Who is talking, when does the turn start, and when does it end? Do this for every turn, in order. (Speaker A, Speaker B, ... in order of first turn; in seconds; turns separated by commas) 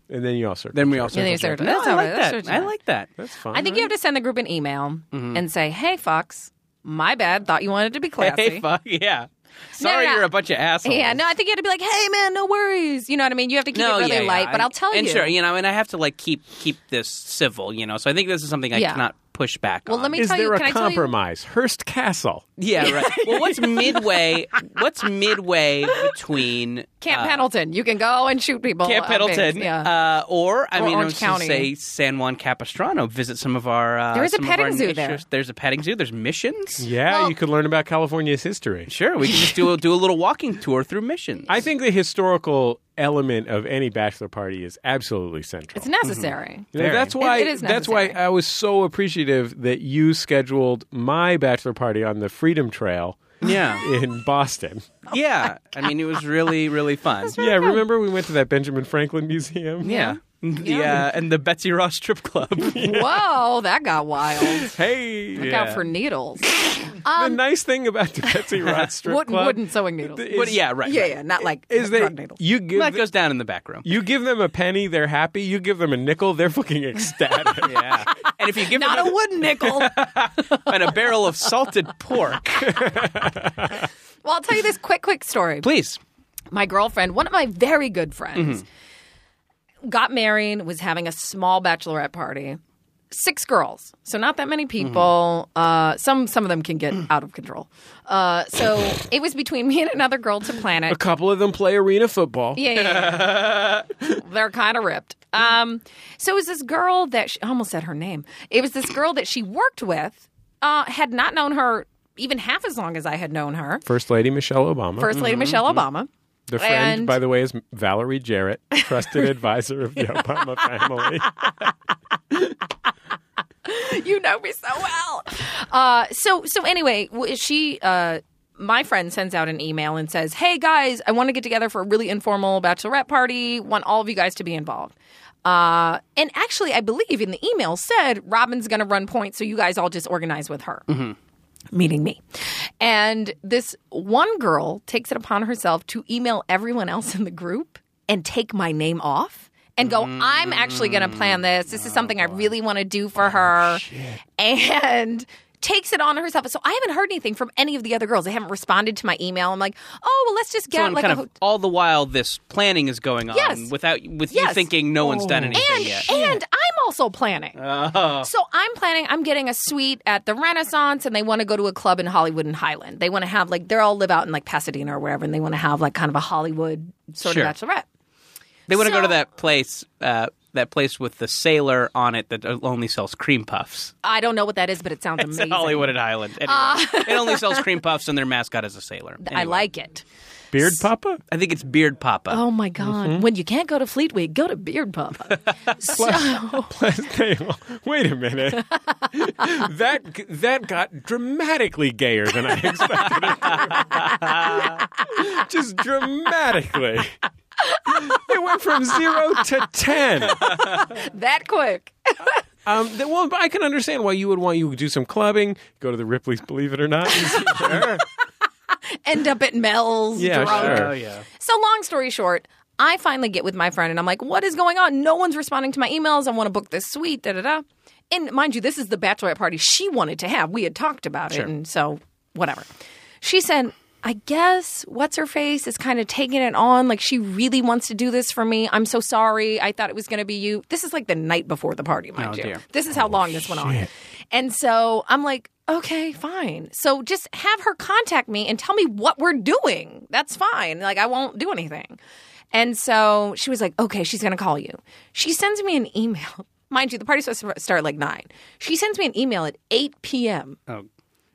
Speaker A: 0.1-1.7, Speaker B: 0.7-3.1, Speaker C: 1.1-2.7, Speaker A: 3.2-3.9, Speaker C: 3.5-8.6, Speaker B: 5.1-5.4, Speaker B: 8.2-11.2, Speaker C: 9.8-10.3, Speaker C: 10.8-15.3, Speaker B: 13.7-20.2, Speaker C: 18.7-19.1, Speaker C: 19.9-21.1, Speaker A: 20.1-22.4, Speaker B: 22.6-27.4, Speaker C: 22.8-24.6, Speaker C: 25.9-26.1, Speaker C: 27.0-29.9, Speaker B: 28.8-36.9, Speaker C: 30.8-31.7, Speaker C: 34.1-35.2, Speaker A: 36.8-38.9, Speaker C: 37.1-37.3, Speaker B: 38.9-41.5, Speaker A: 41.5-45.9, Speaker C: 45.7-48.2, Speaker B: 46.0-47.1, Speaker A: 46.7-55.0, Speaker B: 53.4-53.8, Speaker B: 55.1-57.4, Speaker C: 57.2-57.8, Speaker A: 57.4-59.9, Speaker C: 59.8-61.0, Speaker B: 59.8-62.8, Speaker A: 62.7-63.2, Speaker C: 62.8-64.7, Speaker A: 64.4-65.7, Speaker C: 65.3-67.4, Speaker B: 65.4-65.8, Speaker A: 67.1-70.6, Speaker C: 69.0-72.4, Speaker B: 70.3-71.1, Speaker A: 71.7-73.0, Speaker B: 72.7-73.9, Speaker A: 73.8-78.0, Speaker B: 77.6-82.8, Speaker C: 78.3-80.0, Speaker C: 80.5-81.0, Speaker A: 82.6-83.8, Speaker C: 84.2-85.7, Speaker B: 85.6-86.0, Speaker C: 86.5-88.6, Speaker B: 88.3-88.6, Speaker C: 89.8-92.6, Speaker C: 93.1-101.0, Speaker B: 94.8-95.0, Speaker A: 100.9-102.6, Speaker C: 102.5-103.4, Speaker B: 102.7-103.9, Speaker C: 104.1-113.8, Speaker A: 113.8-115.1, Speaker C: 115.0-117.2, Speaker B: 115.1-115.8, Speaker A: 116.5-121.7, Speaker C: 118.7-119.3, Speaker C: 120.6-121.5, Speaker C: 123.6-140.9, Speaker B: 140.9-141.1, Speaker C: 141.7-153.8, Speaker B: 149.8-152.5, Speaker B: 153.2-154.2, Speaker C: 154.4-161.3, Speaker B: 160.7-166.3, Speaker C: 163.3-163.7, Speaker C: 164.3-167.6, Speaker A: 165.2-166.3, Speaker B: 167.6-168.3, Speaker C: 168.2-177.8, Speaker B: 177.2-177.5, Speaker B: 178.7-183.9, Speaker C: 178.7-179.2, Speaker C: 184.0-185.9, Speaker B: 185.2-189.6, Speaker C: 186.4-187.6, Speaker C: 189.2-190.0, Speaker A: 190.5-191.2, Speaker B: 191.3-192.4, Speaker C: 192.3-196.7, Speaker A: 192.8-193.2, Speaker A: 195.9-207.2, Speaker C: 203.5-204.8, Speaker B: 203.5-204.8, Speaker C: 207.6-208.2, Speaker A: 207.9-210.5, Speaker C: 208.9-209.3, Speaker C: 210.3-212.4, Speaker B: 210.4-210.8, Speaker A: 212.6-218.0, Speaker C: 217.1-218.0, Speaker B: 217.6-217.9, Speaker C: 218.9-232.7, Speaker A: 220.2-220.9, Speaker B: 220.3-221.2, Speaker C: 233.2-252.0, Speaker B: 242.2-242.6, Speaker A: 242.9-243.9, Speaker C: 252.5-260.6